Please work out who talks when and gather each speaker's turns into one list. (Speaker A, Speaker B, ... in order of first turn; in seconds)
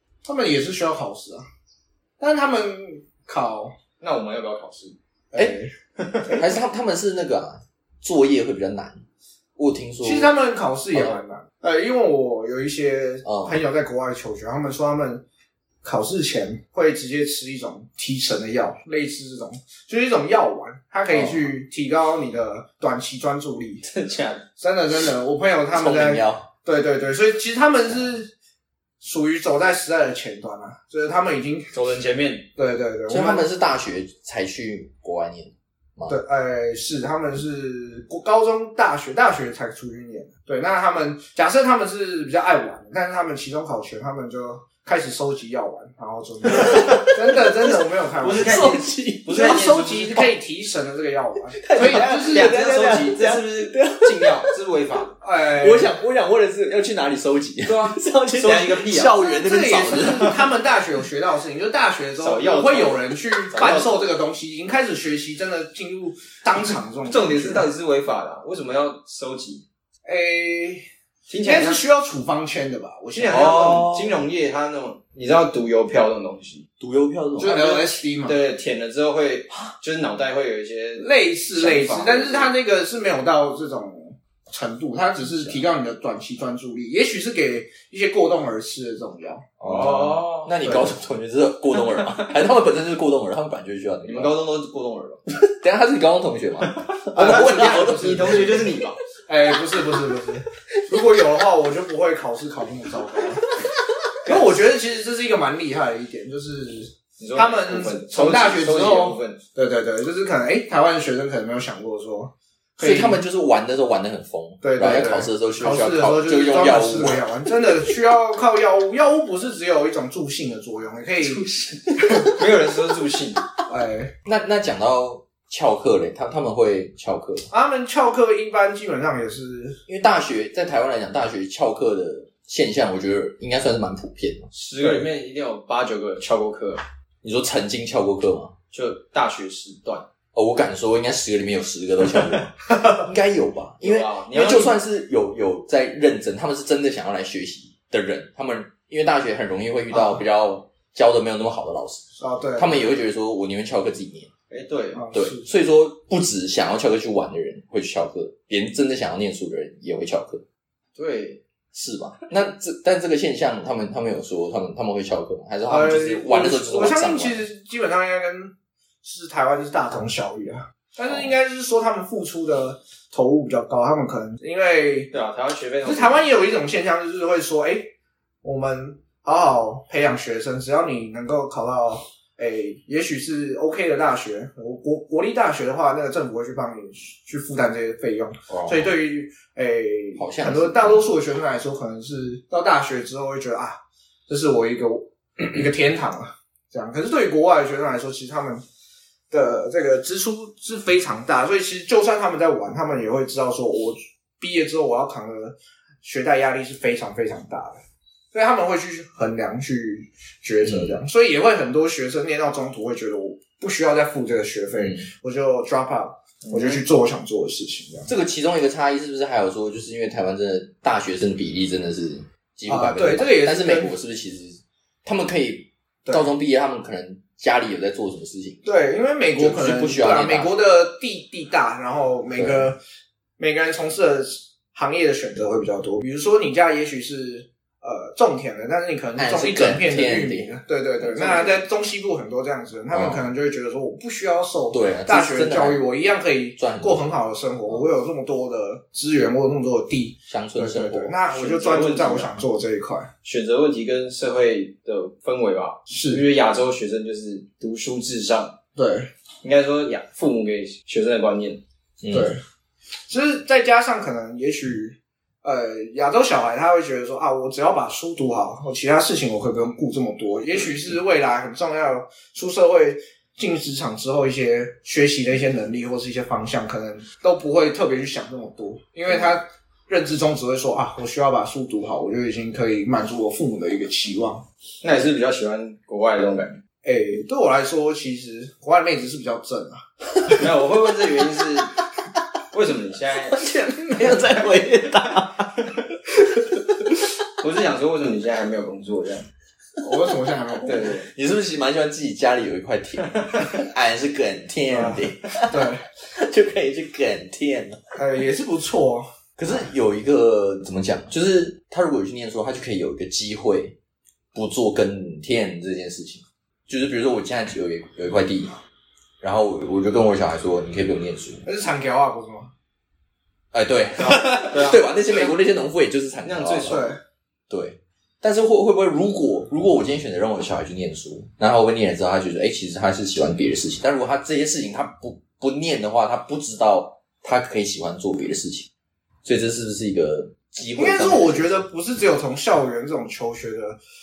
Speaker A: 0.2-1.4, 2.2-3.7, 5.3-5.7, 10.0-15.2, 15.8-23.8, 24.6-28.3, 29.0-31.7, 32.6-33.5, 36.1-52.5, 55.2-55.9, 59.2-67.7, 70.0-70.8, 71.4-73.8, 77.3-78.4, 81.0-89.5, 90.6-90.9, 97.1-98.7, 99.3-103.5, 104.2-113.2, 114.6-121.5, 123.7-124.1, 127.5-129.8, 149.9-150.2, 152.2-152.9, 154.9-155.5, 165.7-168.5, 169.0-175.1, 175.8-177.9, 178.4-198.6, 199.3-207.8, 208.3-218.1, 222.7-223.9, 228.6-232.8, 233.4-253.1, 255.9-256.2, 258.8-259.1, 262.1-262.4, 263.1-284.4, 286.8-289.8, 299.8-300.9, 304.7-305.8, 307.9-309.1, 321.4-322.5, 326.6-327.0, 340.8-343.8
Speaker B: 4.0-5.0, 6.0-6.3, 23.8-24.4, 31.7-32.5, 46.8-47.1, 48.2-50.2, 51.8-55.1, 57.6-59.2, 62.2-64.0, 67.0-69.6, 71.3-71.8, 73.1-76.6, 77.5-82.5, 89.6-90.5, 92.0-92.3, 94.0-95.2, 96.6-99.0, 107.2-109.4, 121.4-123.5, 134.5-136.8, 138.7-140.1, 143.8-144.8, 154.5-155.0, 160.9-161.4, 175.1-176.2, 216.4-216.8, 251.3-252.3, 253.2-258.6, 259.4-261.6, 284.8-286.6, 290.3-291.7, 292.5-293.4, 297.4-299.3, 300.6-301.1, 324.0-324.8, 326.2-326.9
Speaker C: 6.2-9.0, 9.6-10.3, 13.2-13.6, 21.1-21.5, 25.7-26.5, 33.1-36.2, 46.5-47.8, 48.3-50.2, 51.5-54.5, 55.5-60.5, 73.3-74.2, 76.8-77.8, 85.2-85.6, 89.6-94.3, 95.3-98.6, 112.8-117.5, 124.2-127.5, 129.9-134.5, 137.2-138.5, 140.3-154.3, 155.1-160.4, 161.7-167.4, 171.0-171.3, 188.5-188.9, 190.2-191.1, 210.6-210.9, 214.8-215.1, 218.1-228.6, 229.3-230.5, 232.3-232.7, 239.2-241.5, 242.9-243.2, 244.7-245.8, 246.6-247.1, 250.3-251.1, 262.0-262.3, 293.3-297.0, 300.6-307.8, 309.4-313.8, 314.3-318.6, 319.2-321.4, 323.5-326.9, 327.5-338.7, 339.2-341.6